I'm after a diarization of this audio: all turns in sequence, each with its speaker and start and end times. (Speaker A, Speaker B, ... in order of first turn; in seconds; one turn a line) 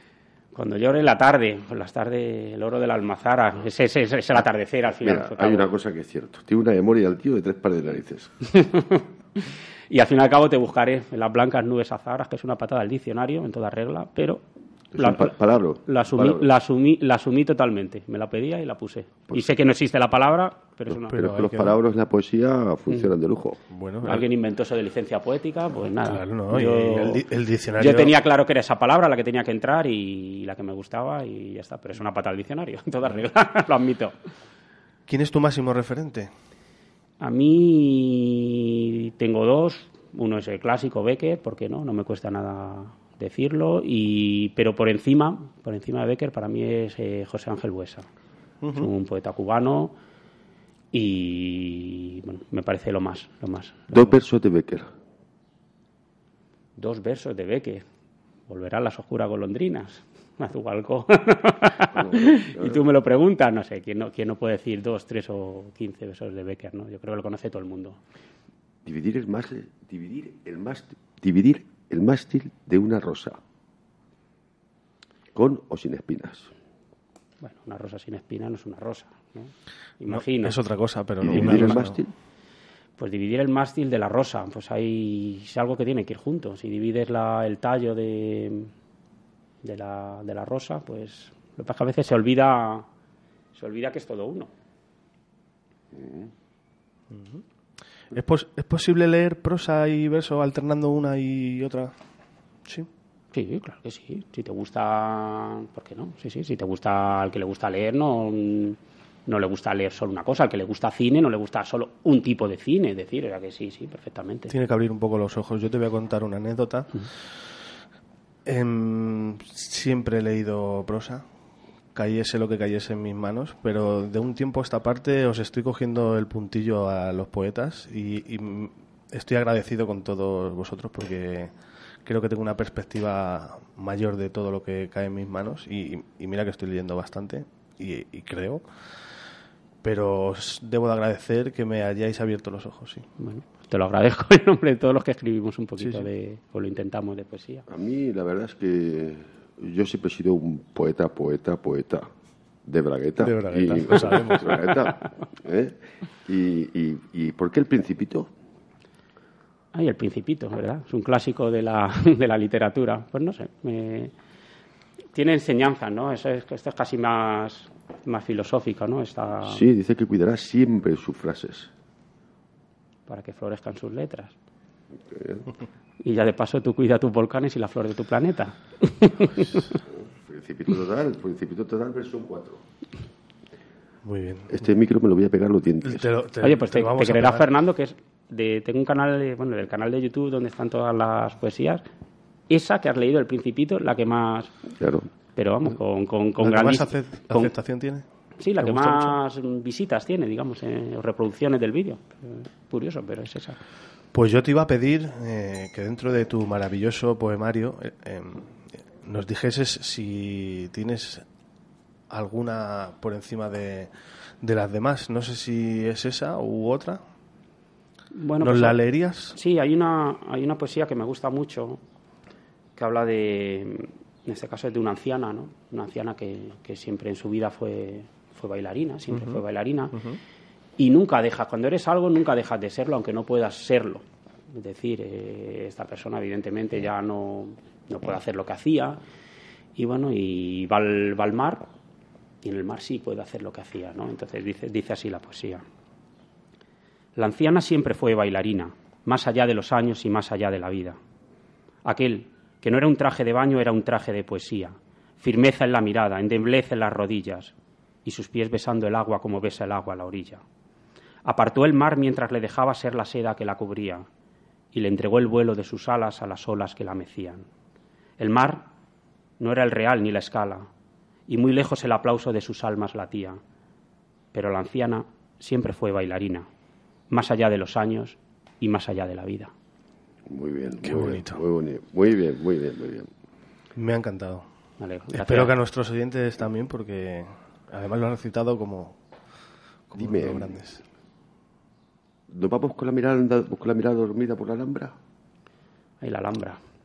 Speaker A: 0.5-5.7
Speaker B: 5.0-8.3
Speaker A: 8.4-14.4
Speaker B: 14.9-16.5
Speaker A: 15.0-15.3
Speaker A: 15.8-21.2
Speaker B: 21.1-23.6
Speaker C: 21.1-21.8
Speaker C: 23.7-24.2
Speaker A: 24.0-27.2
Speaker C: 26.0-28.1
Speaker A: 27.8-34.1
Speaker C: 35.1-36.3
Speaker A: 37.2-48.1
Speaker C: 48.6-48.9
Speaker A: 48.7-49.9
Speaker A: 50.9-54.1
Speaker B: 53.9-54.9
Speaker A: 56.8-57.8
Speaker A: 58.5-68.0
Speaker B: 61.9-62.8
Speaker B: 68.8-73.4
Speaker B: 75.3-76.5
Speaker A: 77.4-80.6
Speaker C: 80.1-82.0
Speaker B: 81.2-82.1
Speaker A: 81.3-81.7
Speaker A: 83.0-88.7
Speaker A: 89.6-92.8
Speaker A: 93.5-94.5
Speaker B: 95.9-96.3
Speaker C: 97.1-97.4
Speaker C: 98.1-101.9
Speaker A: 103.3-114.5
Speaker C: 114.5-116.9
Speaker C: 118.5-121.2
Speaker C: 121.9-131.5
Speaker C: 132.0-138.6
Speaker C: 139.8-143.0
Speaker A: 143.2-147.7
Speaker C: 145.8-146.0
Speaker B: 147.7-152.1
Speaker B: 152.7-158.3
Speaker C: 153.2-154.9
Speaker A: 159.7-164.1
Speaker A: 165.1-169.6
Speaker B: 169.4-171.7
Speaker A: 173.1-174.3
Speaker B: 175.1-175.5
Speaker A: 176.0-179.7
Speaker B: 179.9-182.6
Speaker C: 184.0-184.5
Speaker B: 184.5-186.1
Speaker C: 185.8-187.5
Speaker A: 186.4-191.8
Speaker A: 192.5-194.5
Speaker B: 194.8-195.1
Speaker A: 195.3-197.5
Speaker C: 196.4-198.0
Speaker A: 198.4-203.6
Speaker C: 198.6-199.2
Speaker C: 204.1-208.5
Speaker C: 209.0-211.2
Speaker C: 212.1-217.0
Speaker A: 218.1-218.8
Speaker C: 218.4-219.4
Speaker A: 219.3-221.8
Speaker A: 222.8-230.0
Speaker C: 229.1-229.4
Speaker A: 230.8-239.0
Speaker A: 239.8-241.6
Speaker A: 242.4-245.6
Speaker A: 247.2-251.0
Speaker A: 251.8-257.5
Speaker A: 258.0-260.4
Speaker A: 261.2-264.1
Speaker A: 264.7-267.4
Speaker A: 268.2-268.7
Speaker A: 269.4-270.7
Speaker A: 271.3-273.4
Speaker A: 274.3-276.5
Speaker A: 277.1-279.5
Speaker B: 280.3-283.1
Speaker C: 280.8-281.4
Speaker C: 283.8-284.5
Speaker A: 284.8-285.5
Speaker C: 285.1-289.0
Speaker C: 289.9-290.8
Speaker B: 289.9-290.6
Speaker B: 292.3-294.9
Speaker A: 296.0-296.6